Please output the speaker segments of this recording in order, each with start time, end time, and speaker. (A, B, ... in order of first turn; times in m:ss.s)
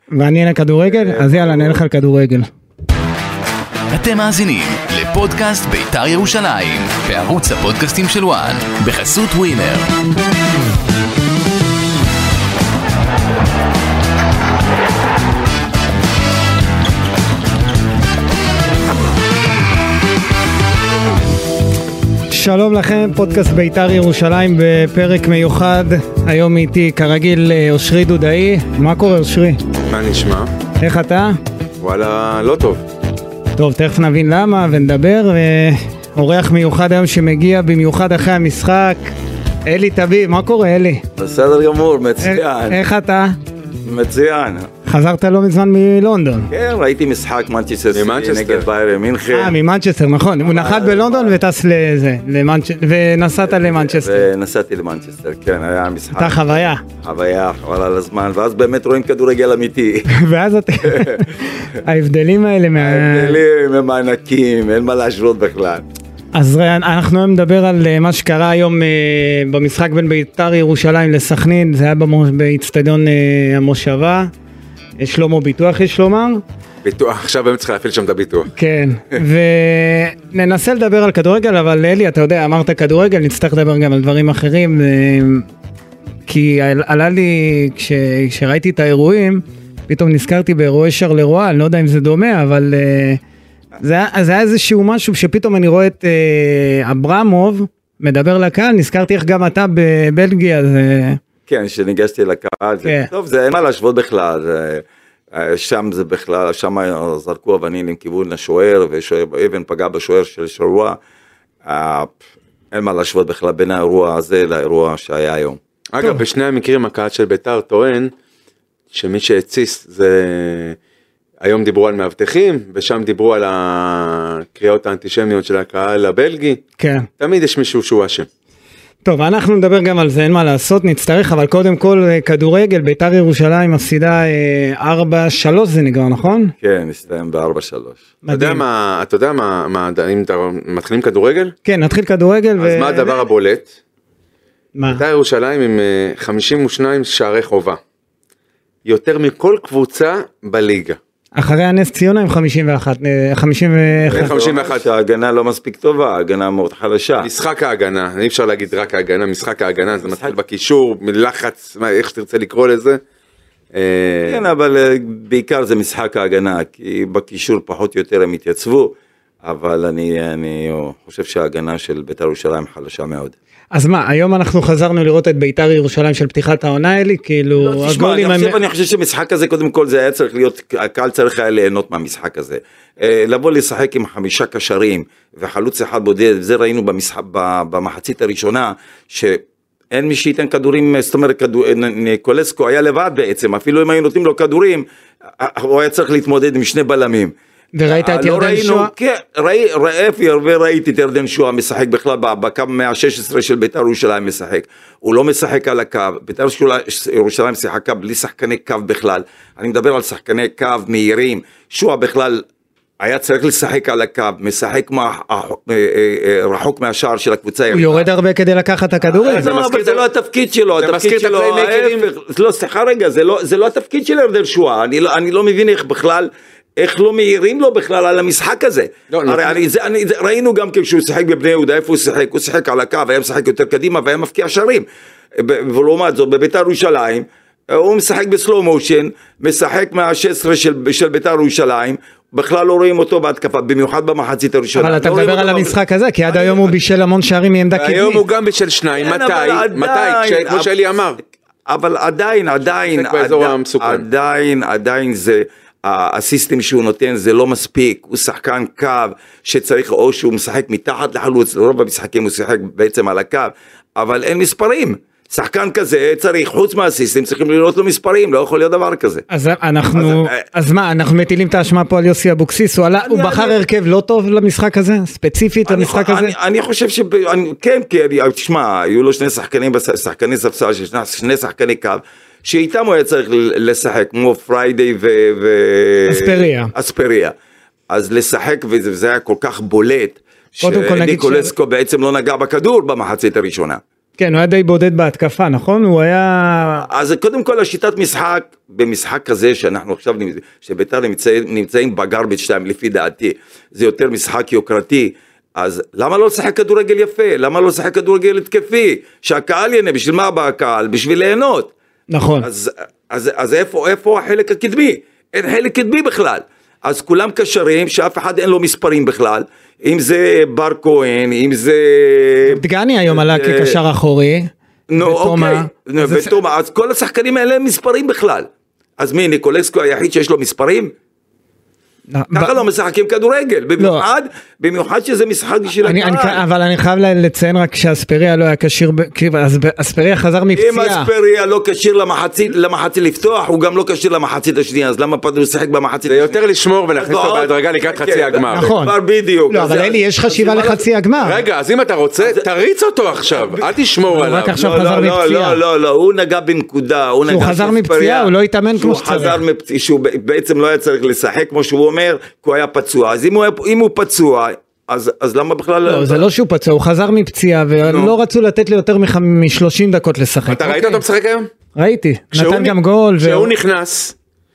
0:00.1-0:02.5 A
0:00.9-0:01.8 B
0:03.9-0:09.9 C
0:22.3-0:29.6 A
0:29.9-0:30.5 D
0:30.8-0:31.4 A
0:31.8-0:32.8 D
0:33.6-0:39.1 A
0:39.7-0:41.0 A
0:41.2-0:42.8 B
0:42.2-0:43.3 A
0:43.8-0:44.7 B
0:44.9-0:46.5 A
0:46.5-0:49.6 B
0:47.9-0:48.7 D
0:49.3-0:54.3 A
0:50.4-0:51.4 B
0:53.4-1:00.2 B
0:56.2-0:56.8 A
1:00.1-1:03.4 A
1:00.8-1:01.3 B
1:02.8-1:05.8 B
1:06.3-1:14.3 A
1:15.0-1:16.4 A
1:16.8-1:18.5 D
1:18.6-1:25.5 A
1:26.3-1:33.2 A
1:33.8-1:41.2 A
1:41.5-1:51.0 B
1:51.6-1:52.2 B
1:52.7-1:55.6 B
1:55.9-1:58.1 D
1:58.9-2:00.8 D
2:01.4-2:06.6 D
2:06.8-2:07.1 A
2:07.2-2:08.3 D
2:09.0-2:16.6 A
2:16.6-2:18.0 B
2:18.2-2:18.6 A
2:18.3-2:21.5 D
2:21.6-2:23.2 A
2:22.6-2:23.7 D
2:24.8-2:25.0 A
2:24.9-2:27.8 D
2:28.9-2:31.0 D
2:31.4-2:34.3 A
2:34.1-2:34.8 D
2:34.1-2:37.3 B
2:37.2-2:43.0 D
2:40.0-2:40.4 B
2:43.7-2:44.4 D
2:44.3-2:53.4 B
2:53.8-2:58.6 A
2:57.6-3:14.8 B
3:15.4-3:17.3 B
3:17.8-3:18.9 A
3:17.9-3:32.5 B
3:33.0-3:38.1 B
3:37.7-3:39.5 A
3:39.1-3:54.8 B
3:39.2-3:40.0 D
3:40.8-3:42.1 D
3:49.1-3:49.6 D
3:55.4-4:05.8 B
4:04.8-4:08.2 A
4:06.3-4:06.8 B
4:07.8-4:11.2 D
4:09.0-4:10.7 B
4:11.7-4:29.2 B
4:12.9-4:14.0 D
4:29.3-4:36.3 A
4:29.9-4:30.4 B
4:33.1-4:33.6 B
4:35.7-4:47.3 B
4:46.1-4:46.7 A
4:47.9-4:53.8 B
4:50.6-4:51.5 A
4:54.2-4:56.9 A
4:56.9-5:11.7 B
5:12.1-5:12.5 A
5:12.4-5:23.8 B
5:22.5-5:26.3 A
5:24.9-5:28.5 B
5:29.0-5:30.9 B
5:32.1-5:32.6 A
5:32.3-5:36.4 B
5:33.8-5:34.1 A
5:35.8-5:41.1 A
5:40.6-5:46.4 B
5:46.1-5:48.7 D
5:47.0-5:50.8 B
5:48.5-5:49.0 A
5:49.5-5:51.4 A
5:51.2-5:54.6 D
5:52.2-5:52.5 B
5:53.3-5:53.8 B
5:54.1-5:55.6 A
5:54.4-6:06.3 B
5:57.3-5:59.4 A
6:05.8-6:11.0 A
6:07.8-6:08.2 B
6:10.5-6:11.5 D
6:11.8-6:13.5 A
6:12.3-6:14.2 D